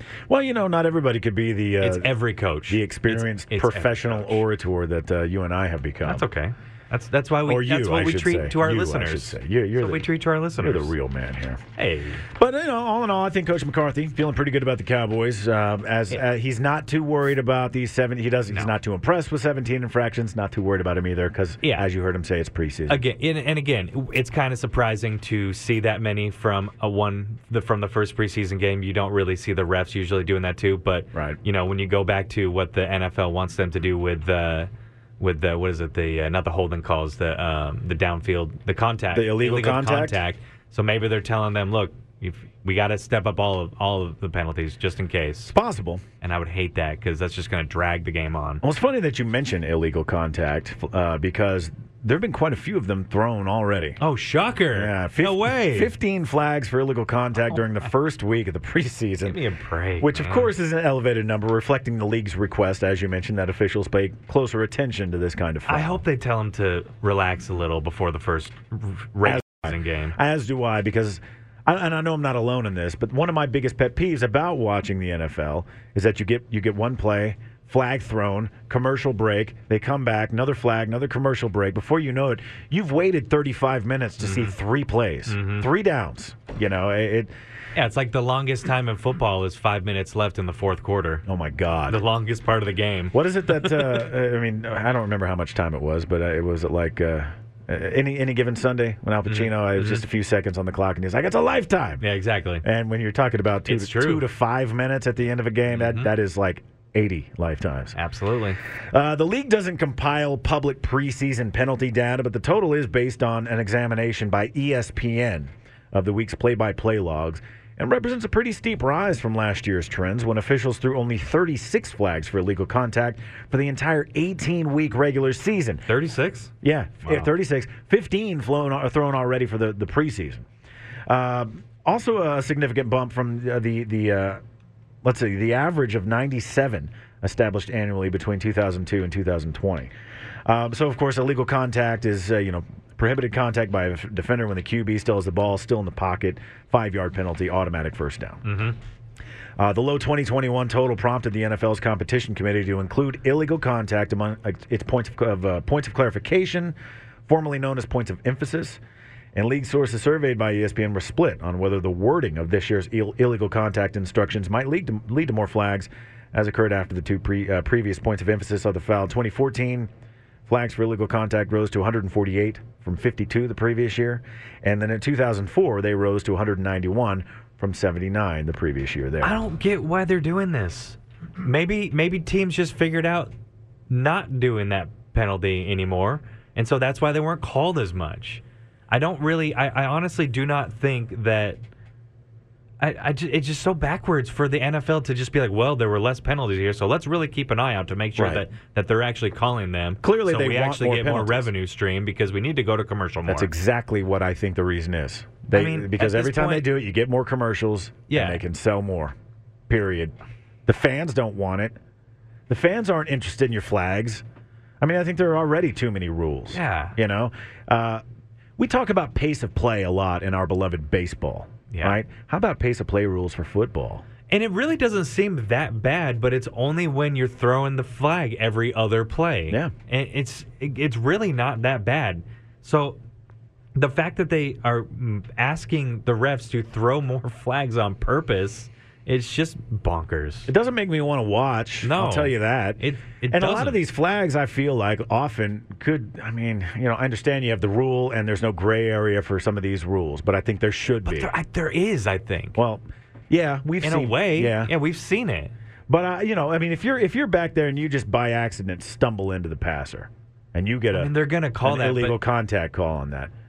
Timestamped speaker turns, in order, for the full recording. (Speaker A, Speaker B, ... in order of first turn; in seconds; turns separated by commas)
Speaker A: 0.3-2.2, Speaker B: 1.8-4.4, Speaker A: 2.7-6.2, Speaker B: 6.0-10.9, Speaker A: 7.4-11.6, Speaker B: 11.8-12.2, Speaker A: 12.3-23.0, Speaker B: 21.6-21.9, Speaker B: 22.9-45.5, Speaker A: 31.1-31.4, Speaker A: 39.1-40.2, Speaker A: 45.5-46.0, Speaker B: 46.2-48.6, Speaker A: 48.6-54.0, Speaker B: 54.0-55.9, Speaker A: 54.7-59.4, Speaker B: 59.2-60.5, Speaker A: 60.0-66.0, Speaker B: 65.7-70.2, Speaker A: 69.2-87.3, Speaker B: 84.2-84.5, Speaker B: 85.3-85.7, Speaker B: 87.8-91.2, Speaker A: 91.3-92.0, Speaker B: 91.9-93.7, Speaker A: 93.1-102.0, Speaker B: 99.3-100.0, Speaker B: 102.0-102.6, Speaker A: 102.6-108.0, Speaker B: 103.7-104.2, Speaker B: 105.7-106.1, Speaker B: 108.0-108.6, Speaker A: 108.9-125.9, Speaker B: 125.9-126.5, Speaker A: 126.6-130.4, Speaker B: 127.0-127.3, Speaker A: 131.1-134.4, Speaker A: 135.0-139.9, Speaker A: 140.5-148.4, Speaker B: 148.4-148.8, Speaker A: 149.6-156.8, Speaker A: 157.3-158.8, Speaker A: 159.3-169.9, Speaker A: 170.5-179.4, Speaker B: 179.2-183.3, Speaker B: 183.9-191.6, Speaker B: 192.8-203.5, Speaker A: 198.2-198.4, Speaker A: 200.0-201.5, Speaker A: 203.3-209.2, Speaker B: 205.5-206.7, Speaker B: 208.1-208.4, Speaker A: 209.7-210.2, Speaker A: 210.7-211.8, Speaker A: 212.5-214.2, Speaker A: 214.8-218.0, Speaker B: 216.5-217.0, Speaker A: 218.6-224.1, Speaker B: 221.7-222.0, Speaker B: 224.3-233.0, Speaker B: 233.8-240.5, Speaker A: 240.5-251.3, Speaker B: 241.8-243.8, Speaker B: 251.1-252.6, Speaker A: 252.6-254.7, Speaker B: 253.8-255.5, Speaker A: 255.9-263.3, Speaker B: 260.9-262.2